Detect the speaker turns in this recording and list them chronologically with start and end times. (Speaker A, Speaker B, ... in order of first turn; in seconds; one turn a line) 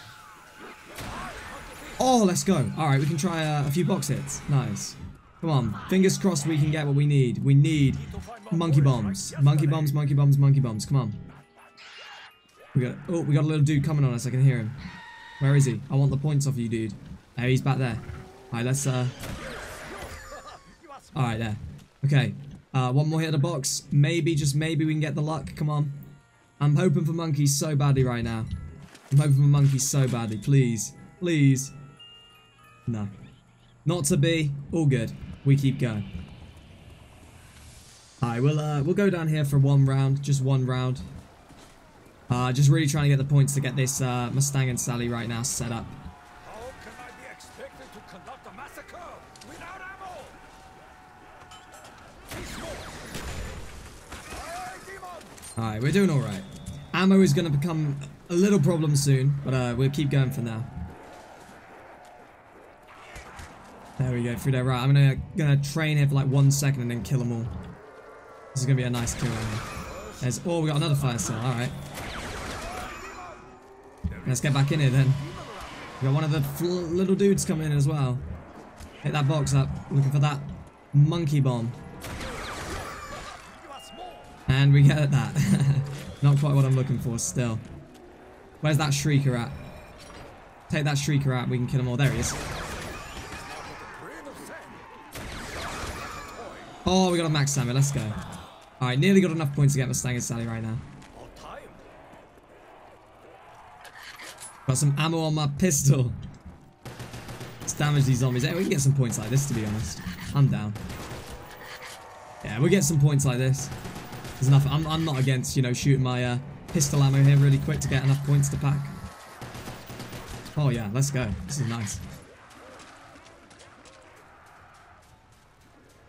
Speaker A: 1.0-2.0
Speaker B: 2.0-11.2
Speaker A: 8.0-9.9
Speaker B: 12.7-14.8
Speaker B: 15.4-19.1
Speaker A: 19.4-21.4
Speaker B: 21.1-26.0
Speaker B: 26.6-28.5
Speaker B: 29.1-31.7
Speaker B: 33.8-36.0
Speaker B: 38.2-41.0
Speaker B: 42.3-45.9
Speaker A: 46.4-50.4
Speaker A: 52.3-53.1
Speaker A: 54.3-55.4
Speaker B: 55.6-60.7
Speaker B: 64.0-67.5
Speaker B: 68.5-69.7
Speaker A: 69.9-71.3
Speaker B: 70.2-71.8
Speaker A: 72.5-73.4
Speaker A: 74.2-76.0
Speaker B: 74.2-75.2
Speaker B: 76.0-78.2
Speaker B: 79.0-81.8
Speaker A: 82.7-84.4
Speaker B: 84.5-87.6
Speaker B: 88.6-89.5
Speaker B: 90.7-92.4
Speaker A: 93.2-94.9
Speaker A: 96.1-96.8
Speaker B: 96.8-98.2
Speaker B: 98.8-100.8
Speaker A: 101.1-101.8
Speaker B: 104.7-106.2
Speaker B: 107.7-110.8
Speaker B: 112.4-113.7
Speaker B: 114.4-118.9
Speaker B: 120.5-122.0